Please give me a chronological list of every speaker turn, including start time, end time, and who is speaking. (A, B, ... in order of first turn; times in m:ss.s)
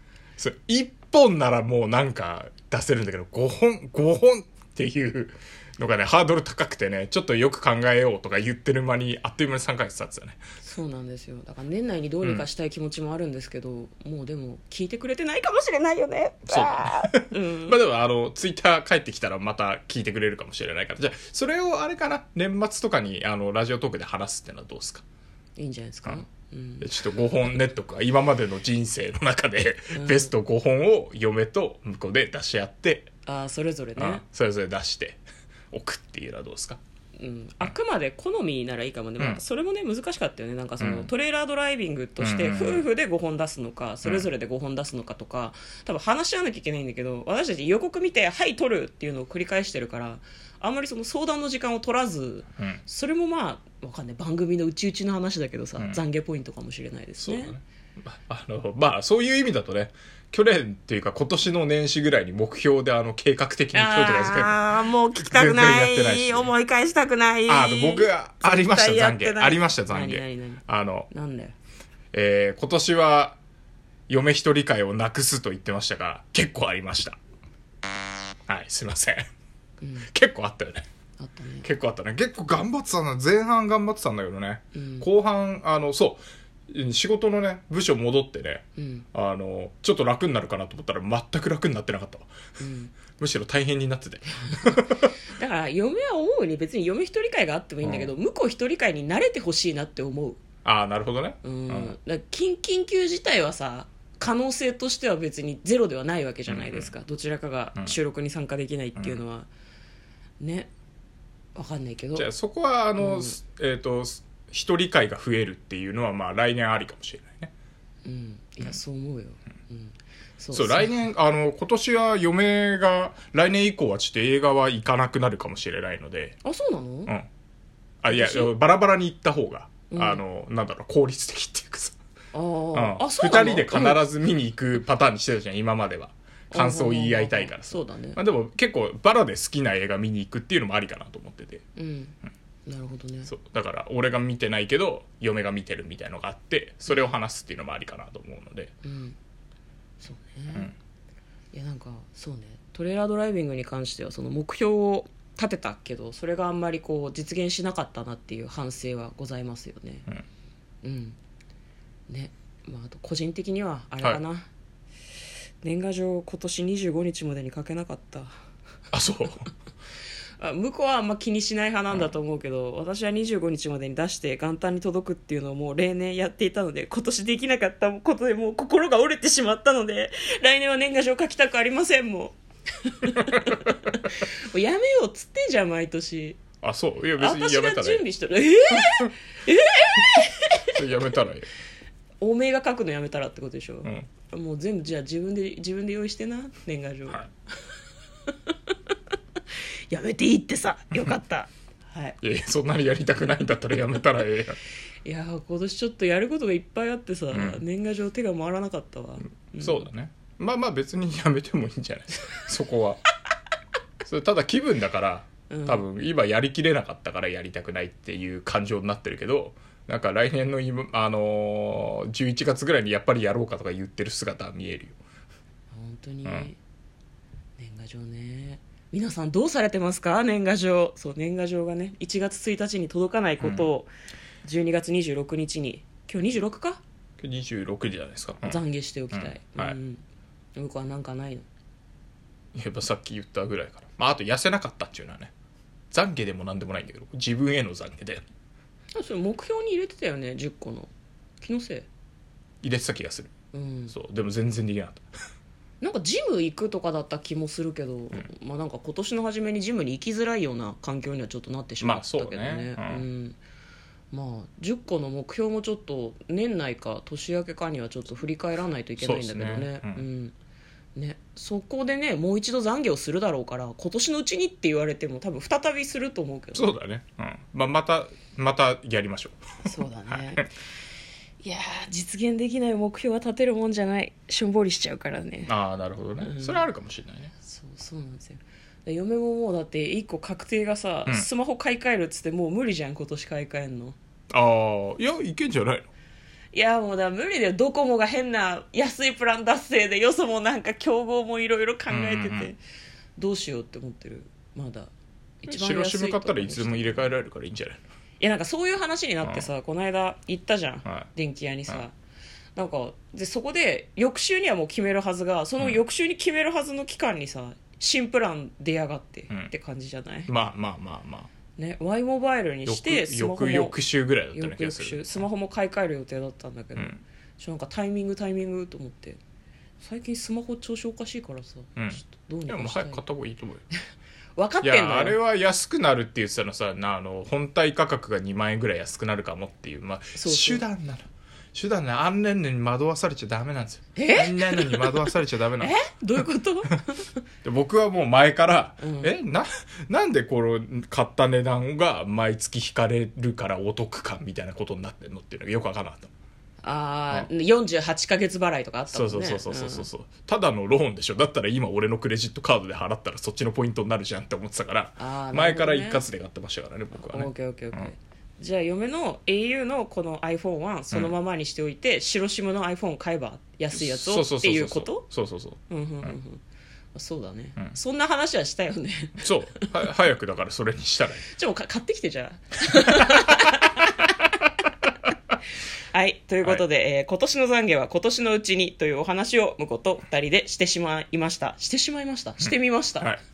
0:00.4-0:10.4 A
0:10.6-0:17.8 B
0:12.2-0:12.5 A
0:16.5-0:25.0 A
0:25.6-0:26.9 B
0:26.8-0:33.1 A
0:29.9-0:30.3 B
0:33.3-0:34.2 B
0:34.0-0:35.2 A
0:35.7-0:36.8 A
0:37.2-0:57.6 B
0:40.8-0:41.1 A
0:42.2-0:42.9 A
0:57.2-1:06.5 A
1:03.7-1:11.6 B
1:07.5-1:11.1 A
1:12.1-1:13.4 A
1:14.1-1:17.2 A
1:18.5-1:19.2 A
1:19.8-1:20.1 B
1:20.1-1:20.9 A
1:21.2-1:21.7 B
1:21.6-1:32.3 A
1:24.7-1:25.1 B
1:28.8-1:29.1 B
1:32.6-1:32.9 B
1:33.2-1:35.1 A
1:34.5-1:40.4 B
1:37.8-1:38.1 A
1:40.6-1:42.0 A
1:41.4-1:49.5 B
1:46.5-1:46.9 A
1:50.4-1:50.7 B
1:51.6-1:52.3 B
1:52.2-1:57.5 A
1:53.0-1:53.4 B
1:58.0-2:00.9 B
2:00.5-2:06.4 A
2:06.4-2:07.1 B
2:08.0-2:12.0 A
2:08.1-2:08.5 B
2:09.9-2:10.2 B
2:12.3-2:14.0 B
2:12.7-2:21.6 A
2:16.5-2:18.2 B
2:21.8-2:23.3 B
2:23.3-2:28.7 A
2:28.8-2:29.2 B
2:30.0-2:30.7 B
2:31.5-2:40.1 B
2:40.8-2:41.2 B
2:42.1-2:44.5 B
2:45.6-2:48.3 B
2:48.9-2:49.5 A
2:50.4-3:06.4 B
3:06.6-3:08.0 A
3:07.2-3:10.8 B
3:10.7-3:11.5 A
3:12.2-3:17.2 B
3:18.3-3:18.9 B
3:19.9-3:22.2 B
3:22.2-3:24.6 A
3:25.0-3:29.9 B
3:27.3-3:27.6 A
3:29.6-3:33.0 A
3:34.0-3:45.0 A
3:35.5-3:35.8 B
3:45.7-3:46.6 B
3:46.2-3:46.5 A
3:47.6-3:53.9 B
3:53.4-3:53.7 A
3:54.4-3:56.8 B
3:57.2-3:58.6 A
3:58.4-4:00.0 B
3:59.1-3:59.8 A
4:00.6-4:01.4 B
4:02.5-4:05.3 A
4:05.9-4:08.3 A
4:09.0-4:11.9 B
4:12.6-4:13.3 A
4:13.5-4:13.9 B
4:13.9-4:15.1 A
4:15.8-4:23.4 B
4:21.8-4:23.0 A
4:24.1-4:30.3 B
4:29.0-4:30.0 A
4:31.0-4:36.7 B
4:36.6-4:40.5 A
4:39.6-4:40.5 B
4:41.4-4:45.5 B
4:45.5-4:47.3 A
4:46.2-4:46.6 B
4:47.4-4:54.0 B
4:54.3-4:55.9 A
4:56.5-5:02.6 B
5:01.9-5:02.5 A
5:03.2-5:04.9 B
5:05.4-5:07.1 B
5:05.5-5:07.8 A
5:08.2-5:11.9 B
5:12.6-5:20.3 B
5:20.3-5:21.3 A
5:21.6-5:23.8 B
5:22.7-5:25.2 A
5:24.3-5:29.2 B
5:29.8-5:33.0 B
5:31.8-5:33.6 A
5:34.4-5:35.2 B
5:34.6-5:45.8 A
5:40.1-5:40.6 B
5:44.0-5:47.2 B
5:47.4-5:56.1 A
5:48.8-5:49.1 B
5:56.6-5:59.9 B
5:58.9-6:07.9 A
6:05.0-6:06.1 B
6:07.0-6:15.0 B
6:13.7-6:16.1 A
6:15.7-6:16.4 B
6:16.9-6:19.7 B
6:19.2-6:21.2 A
6:21.3-6:24.3 B
6:25.9-6:33.1 B